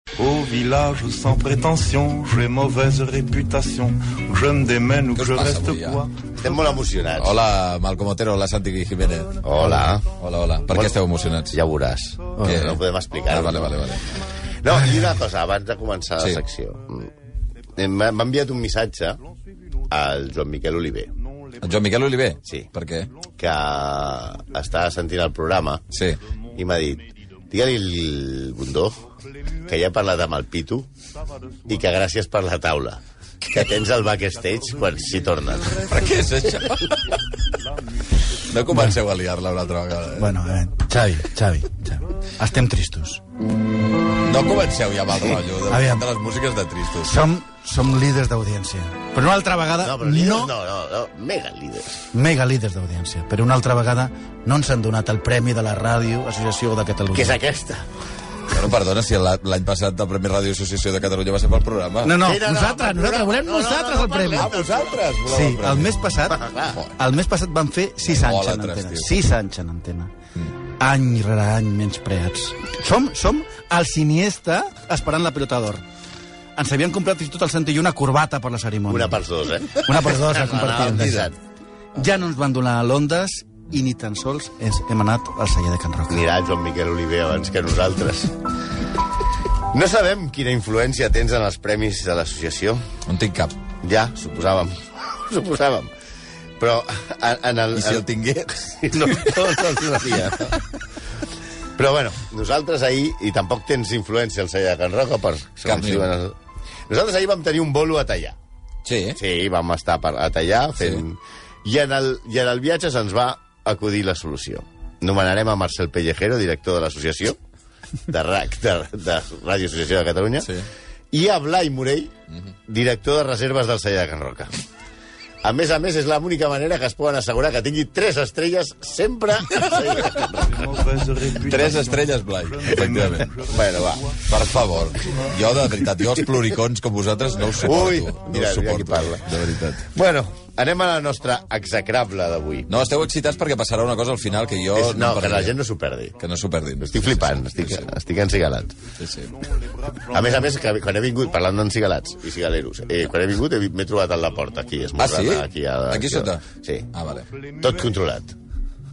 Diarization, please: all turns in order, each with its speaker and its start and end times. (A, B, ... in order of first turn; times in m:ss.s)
0:00.2-0:06.3 A
0:05.2-0:06.0 B
0:06.4-0:07.4 C
0:07.2-0:11.6 B
0:09.4-0:10.1 C
0:11.5-0:13.7 C
0:12.4-0:14.1 B
0:14.6-0:17.1 C
0:17.8-0:19.2 C
0:19.9-0:21.1 C
0:21.6-0:23.1 B
0:23.4-0:25.8 C
0:25.9-0:26.2 B
0:26.6-0:29.0 C
0:29.7-0:30.9 C
0:31.7-0:35.9 C
0:35.9-0:37.2 B
0:38.3-0:40.3 B
0:40.2-0:43.2 D
0:44.2-0:47.2 B
0:45.7-0:46.1 D
0:47.0-0:50.5 D
0:49.8-0:52.0 C
0:52.1-0:57.4 D
0:57.1-0:57.9 C
0:58.5-1:02.1 B
1:02.0-1:04.5 D
1:02.2-1:05.1 C
1:04.4-1:05.9 B
1:05.3-1:06.4 D
1:06.3-1:06.8 C
1:07.0-1:10.1 D
1:08.0-1:09.1 B
1:10.8-1:15.8 D
1:16.6-1:19.2 D
1:18.9-1:21.4 C
1:19.8-1:21.3 D
1:22.0-1:26.2 D
1:26.1-1:28.4 C
1:29.7-1:32.8 C
1:33.1-1:33.6 B
1:33.8-1:35.9 C
1:36.6-1:38.1 C
1:37.7-1:38.6 B
1:38.7-1:40.6 C
1:41.8-1:46.3 C
1:45.7-1:46.1 B
1:46.9-1:48.4 C
1:48.8-1:49.2 B
1:49.2-1:57.4 C
1:58.1-2:00.5 C
2:00.4-2:00.7 B
2:01.1-2:02.1 C
2:02.7-2:04.5 C
2:05.4-2:10.6 C
2:10.5-2:13.7 A
2:11.4-2:13.3 B
2:13.5-2:14.0 C
2:14.3-2:19.8 B
2:17.6-2:19.3 C
2:19.9-2:22.7 C
2:22.7-2:25.5 B
2:24.7-2:26.2 C
2:26.2-2:27.9 B
2:26.8-2:28.8 C
2:29.0-2:29.4 B
2:30.1-2:36.9 C
2:35.0-2:37.3 B
2:37.6-2:38.3 C